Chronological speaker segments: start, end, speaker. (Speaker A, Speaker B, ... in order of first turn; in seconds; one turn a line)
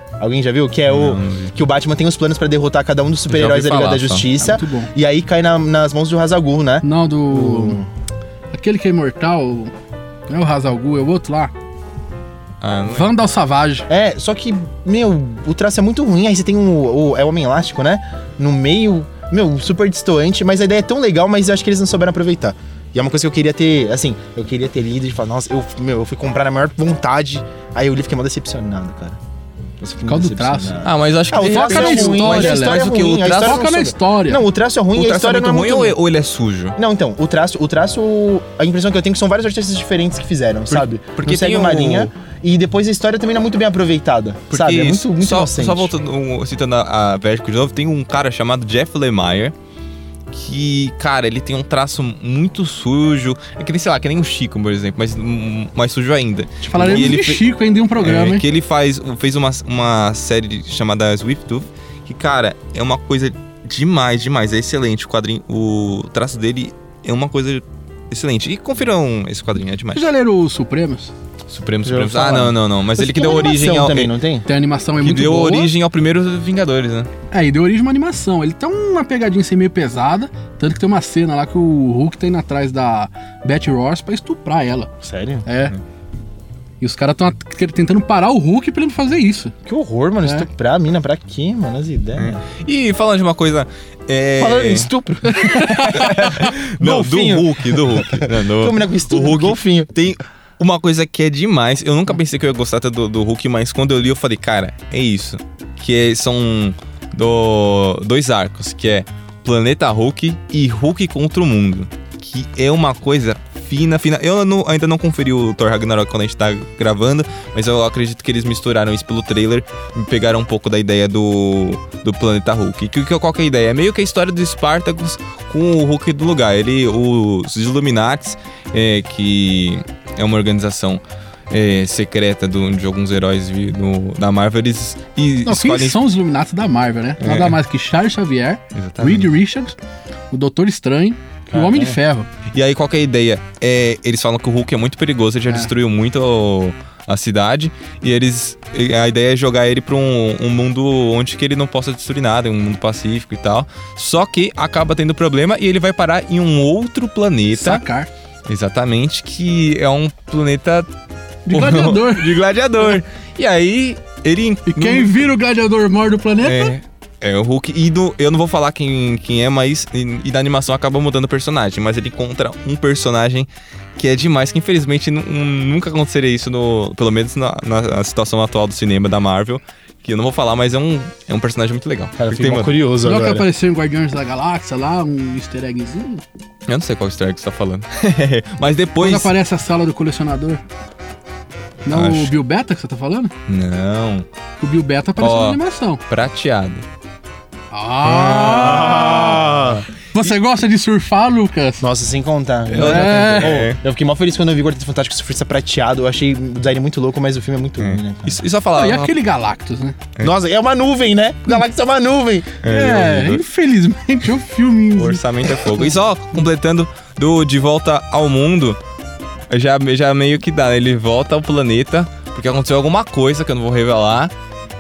Speaker A: 0.2-7.9
Speaker B: 0.9-1.6
Speaker B: 3.3-4.3
Speaker C: 4.4-4.9
Speaker C: 6.8-7.8
Speaker C: 8.5-9.7
Speaker C: 10.3-11.5
Speaker B: 12.6-13.1
Speaker C: 12.9-13.9
Speaker A: 13.9-29.2
Speaker A: 29.8-36.0
Speaker C: 30.1-30.8
Speaker B: 30.8-33.6
Speaker C: 31.4-34.4
Speaker B: 35.0-36.8
Speaker A: 36.8-45.9
Speaker B: 40.7-42.1
Speaker B: 44.5-49.5
Speaker B: 50.3-57.4
Speaker A: 56.6-57.2
Speaker C: 56.7-58.4
Speaker B: 58.0-70.1
Speaker C: 69.9-71.1
Speaker B: 71.5-74.1
Speaker A: 71.8-74.5
Speaker C: 74.5-75.7
Speaker B: 75.0-77.1
Speaker C: 77.3-84.9
Speaker A: 85.0-85.5
Speaker C: 85.5-85.8
Speaker C: 86.8-89.5
Speaker A: 89.7-92.4
Speaker B: 92.2-94.9
Speaker A: 94.4-99.9
Speaker C: 95.3-96.5
Speaker B: 95.9-136.0
Speaker C: 135.4-139.8
Speaker B: 137.2-137.6
Speaker B: 138.7-139.3
Speaker C: 140.3-142.3
Speaker A: 141.5-142.0
Speaker B: 142.5-157.8
Speaker C: 157.6-158.1
Speaker B: 158.5-160.9
Speaker C: 161.5-162.4
Speaker B: 161.5-165.2
Speaker C: 164.7-166.7
Speaker B: 166.4-182.8
Speaker A: 182.2-183.5
Speaker C: 183.0-186.2
Speaker B: 186.7-189.3
Speaker C: 189.0-190.6
Speaker B: 191.8-192.3
Speaker C: 191.9-193.3
Speaker B: 193.5-194.3
Speaker C: 194.6-196.0
Speaker B: 195.2-196.8
Speaker C: 197.7-199.5
Speaker A: 198.1-199.8
Speaker B: 198.3-198.6
Speaker B: 199.3-199.7
Speaker C: 200.1-201.9
Speaker A: 201.8-208.4
Speaker B: 202.7-203.8
Speaker C: 202.8-203.6
Speaker B: 207.8-209.1
Speaker C: 208.7-210.0
Speaker A: 210.2-212.6
Speaker B: 212.6-213.4
Speaker C: 212.6-215.9
Speaker B: 215.0-218.8
Speaker B: 219.5-224.3